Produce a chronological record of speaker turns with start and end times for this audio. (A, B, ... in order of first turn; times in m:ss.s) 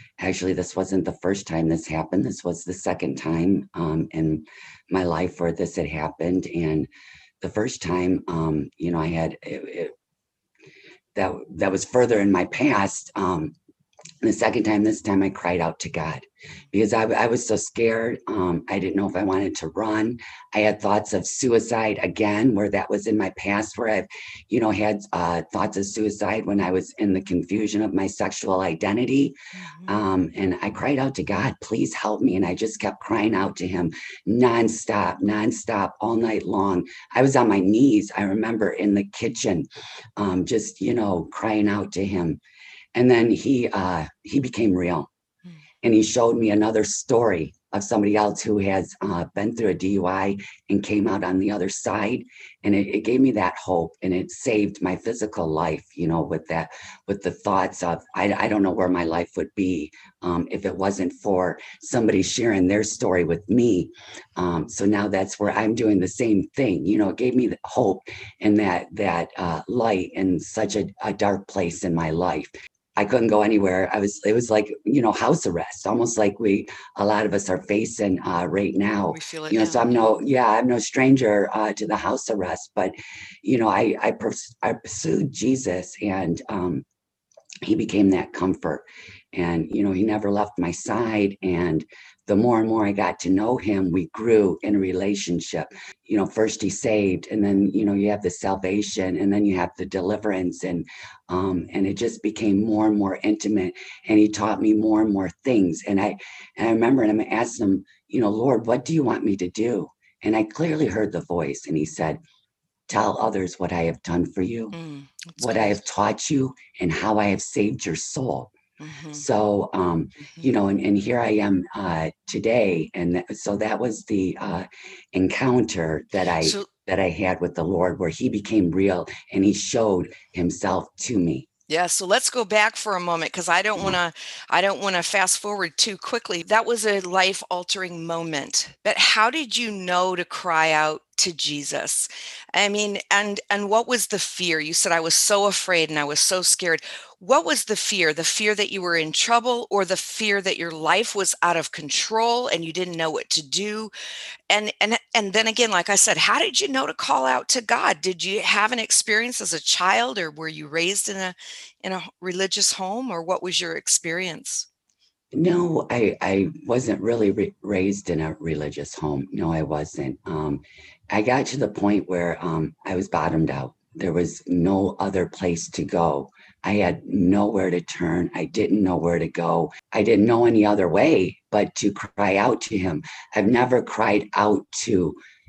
0:00.2-0:06.9 A
0:07.4-0:09.9 A
0:11.1-0:13.5 A
0:14.2-0:29.4 A
0:29.6-0:30.0 B
0:29.9-0:42.4 A
0:42.9-0:45.1 A
0:45.8-1:26.8 A
1:19.1-1:20.0 B
1:27.6-1:52.2 A
1:52.9-1:54.8 A
1:54.7-1:55.8 B
1:55.4-1:58.5 A
1:58.8-1:59.2 B
1:59.1-2:11.5 A
2:06.4-2:06.7 B
2:11.7-2:33.9 B
2:34.5-2:44.7 B
2:45.3-3:05.2 A